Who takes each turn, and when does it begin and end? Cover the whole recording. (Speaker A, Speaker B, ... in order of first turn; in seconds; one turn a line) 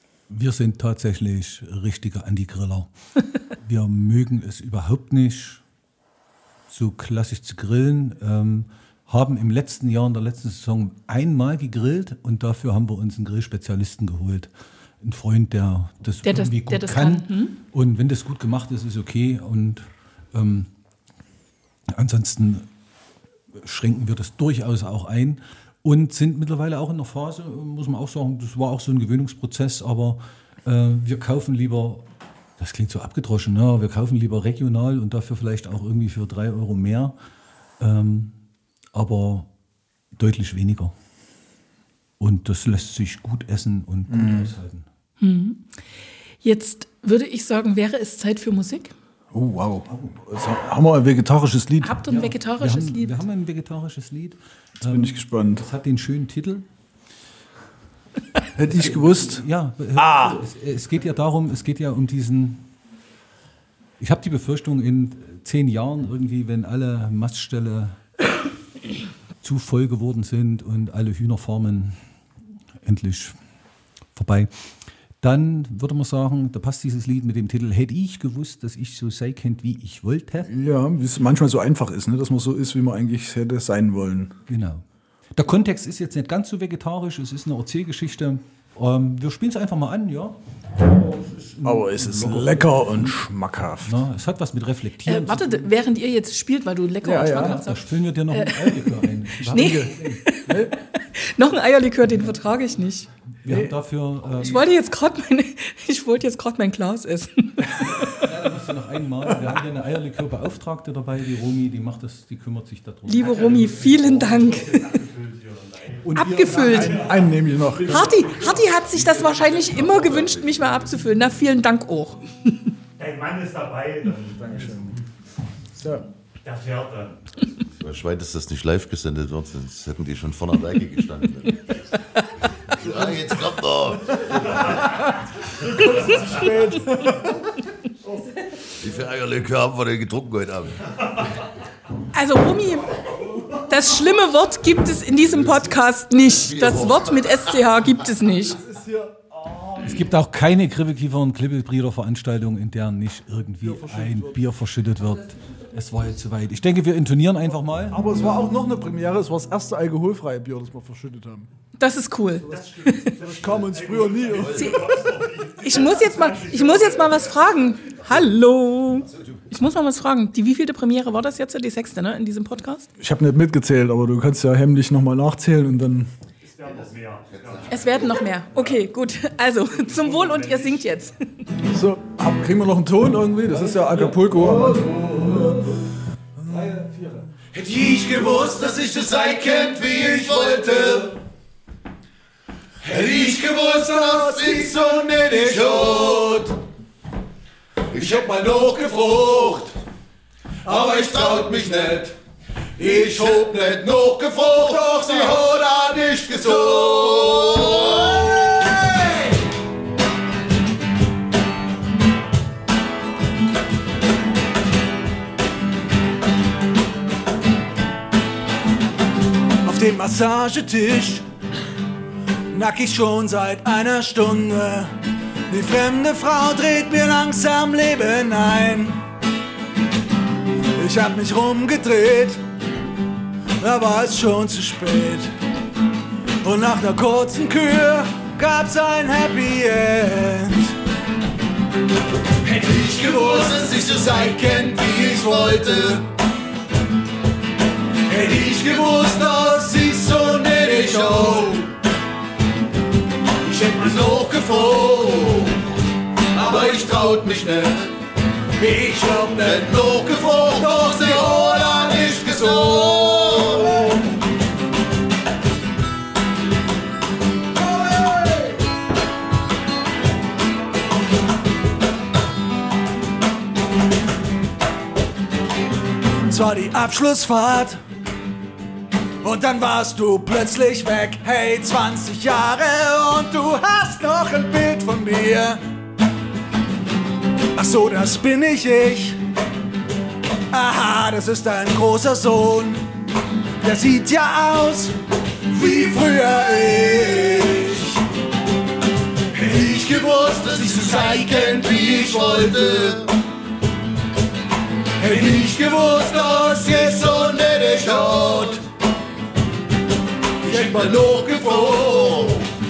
Speaker A: 0.3-2.9
Speaker A: 3.6-5.6
Speaker A: 6.7-14.5
Speaker A: 15.0-20.7
Speaker B: 16.2-17.6
Speaker A: 21.9-22.7
Speaker A: 23.6-32.1
Speaker A: 32.6-37.1
Speaker A: 37.8-38.3
Speaker A: 38.9-39.5
Speaker A: 40.1-40.9
Speaker A: 42.2-44.9
Speaker C: 44.1-44.5
Speaker B: 45.2-45.7
Speaker B: 46.4-48.9
Speaker C: 49.3-52.0
Speaker B: 51.8-53.2
Speaker A: 52.1-56.6
Speaker C: 54.8-55.7
Speaker C: 58.5-59.4
Speaker A: 58.7-62.7
Speaker C: 60.0-60.4
Speaker A: 64.0-68.0
Speaker A: 69.4-72.0
Speaker A: 72.8-73.3
Speaker A: 74.1-74.5
Speaker A: 75.2-80.5
Speaker C: 80.5-84.3
Speaker A: 84.5-90.4
Speaker A: 90.9-93.2
Speaker C: 91.6-93.9
Speaker A: 93.8-95.7
Speaker B: 95.0-103.1
Speaker C: 97.0-97.5
Speaker A: 97.2-100.2
Speaker C: 99.4-100.7
Speaker A: 103.4-104.6
Speaker B: 104.4-108.2
Speaker A: 107.9-114.5
Speaker B: 113.0-114.8
Speaker D: 113.3-116.1
Speaker A: 116.0-117.0
Speaker B: 116.1-117.1
Speaker C: 116.4-118.2
Speaker D: 116.7-117.3
Speaker B: 117.9-122.2
Speaker D: 118.0-119.7
Speaker E: 119.3-120.0
Speaker D: 123.0-125.0
Speaker C: 124.4-124.9
Speaker C: 125.8-126.0
Speaker D: 126.4-127.1
Speaker E: 127.8-131.6
Speaker E: 132.6-134.6
Speaker D: 134.5-134.9
Speaker D: 135.6-136.5
Speaker C: 135.8-137.3
Speaker E: 138.8-141.2
Speaker B: 142.1-148.6
Speaker E: 146.6-147.4
Speaker C: 148.6-149.8
Speaker A: 149.8-158.0
Speaker C: 153.6-154.4
Speaker C: 157.9-161.5
Speaker B: 161.8-163.2
Speaker D: 162.4-167.4
Speaker C: 163.2-164.9
Speaker B: 164.5-165.1
Speaker B: 165.6-172.9
Speaker C: 173.0-176.1
Speaker D: 176.4-178.8
Speaker E: 177.4-177.7
Speaker B: 177.7-181.2
Speaker D: 179.7-180.8
Speaker C: 181.6-185.6
Speaker A: 183.5-185.8
Speaker C: 186.4-186.9
Speaker A: 186.4-187.2
Speaker C: 187.5-190.8
Speaker E: 188.4-191.1
Speaker E: 192.8-196.5
Speaker C: 192.9-196.1
Speaker E: 197.9-199.7
Speaker E: 200.7-202.1
Speaker C: 201.1-201.4
Speaker E: 202.8-208.4
Speaker C: 202.9-203.5
Speaker C: 204.6-205.4
Speaker C: 219.6-221.2
Speaker C: 222.5-224.9
Speaker C: 225.5-229.0
Speaker C: 230.8-232.4
Speaker C: 233.6-235.3
Speaker C: 236.4-240.7
Speaker C: 242.4-245.9
Speaker E: 243.3-246.0
Speaker C: 248.1-251.7
Speaker E: 250.6-251.2
Speaker C: 253.4-254.8
Speaker E: 253.9-255.4
Speaker E: 256.3-257.8
Speaker C: 256.4-257.0
Speaker C: 258.6-259.7
Speaker E: 259.4-263.7
Speaker C: 261.0-261.4
Speaker C: 276.2-277.8
Speaker C: 279.2-285.6
Speaker C: 287.5-289.2
Speaker C: 290.5-292.8
Speaker C: 293.6-294.9
Speaker C: 295.5-298.0
Speaker C: 299.3-302.5
Speaker E: 299.7-303.1
Speaker C: 305.0-307.2
Speaker E: 305.1-308.6
Speaker C: 307.8-308.4
Speaker C: 310.4-311.1
Speaker E: 310.4-312.4